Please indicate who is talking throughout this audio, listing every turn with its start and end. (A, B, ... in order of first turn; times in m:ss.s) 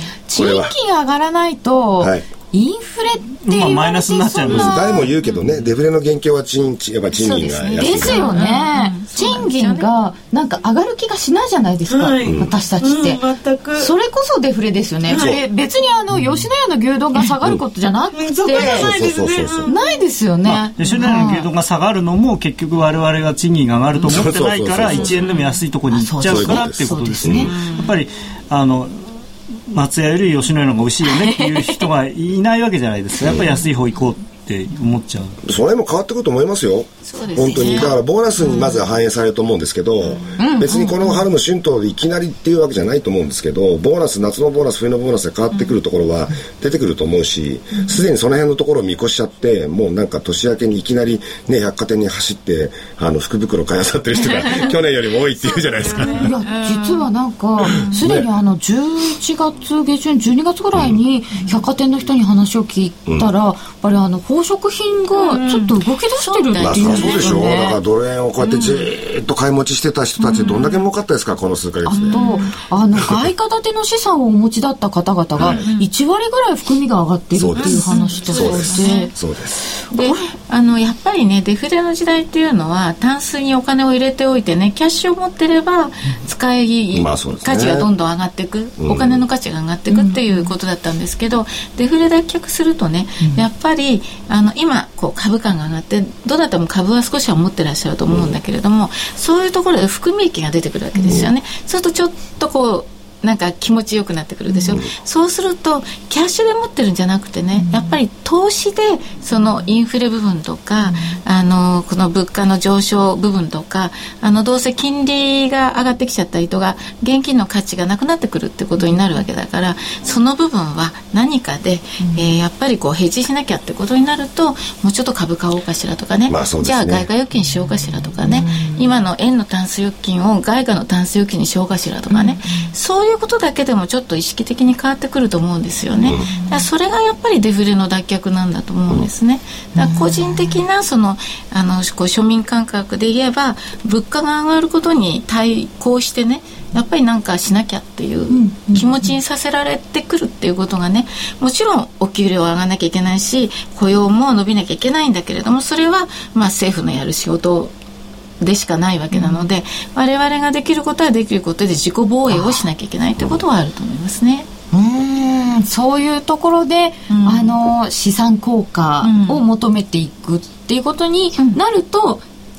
0:00.3-0:05.1 A
0:00.3-0:00.8 B
0:02.0-0:02.2 B
0:03.4-0:04.8 C
0:04.5-0:08.3 B
0:07.2-0:09.9 D
0:07.7-0:13.2 A
0:11.9-0:13.9 E
0:12.2-0:12.5 B
0:13.8-0:18.9 A
0:15.1-0:15.4 E
0:15.1-0:15.4 B
0:18.1-0:20.0 E
0:18.5-0:19.7 B
0:19.6-0:21.5 A
0:20.4-0:35.4 C
0:24.0-0:25.3 B
0:25.1-0:25.6 D
0:25.9-0:27.6 A
0:26.2-0:27.5 B
0:27.4-0:27.9 D
0:33.2-0:33.5 B
0:35.4-0:56.3 B
0:37.0-0:38.9 D
0:37.4-0:37.9 A
0:40.0-0:40.4 D
0:40.4-0:41.2 A
0:54.3-0:54.7 D
0:55.4-0:57.1 D
0:56.1-1:07.8 A
0:57.6-0:58.0 D
0:57.9-0:58.3 B
1:03.0-1:03.3 B
1:05.1-1:07.7 D
1:06.6-1:12.4 B
1:08.4-1:08.9 D
1:10.2-1:10.9 D
1:11.8-1:19.1 A
1:12.0-1:12.5 D
1:15.4-1:15.6 B
1:15.4-1:15.9 D
1:17.3-1:19.6 B
1:17.6-1:19.1 D
1:19.9-2:37.7 D
1:19.9-1:20.3 A
1:26.9-1:27.9 B
1:28.8-1:29.2 B
1:29.9-1:30.5 A
1:38.1-1:38.3 B
1:40.9-1:41.3 A
1:44.5-1:44.8 A
1:47.5-1:48.0 A
1:50.8-1:51.2 A
1:58.8-1:59.0 A
2:02.0-2:02.4 A
2:06.3-2:07.1 B
2:07.4-2:08.9 A
2:12.1-2:12.7 A
2:16.0-2:16.3 B
2:16.3-2:16.6 A
2:19.8-2:20.6 A
2:28.3-2:29.1 A
2:38.4-2:44.5 D
2:39.1-2:39.4 A
2:42.3-2:42.7 A
2:44.7-2:52.2 A
2:47.1-2:47.6 D
2:49.0-2:49.4 D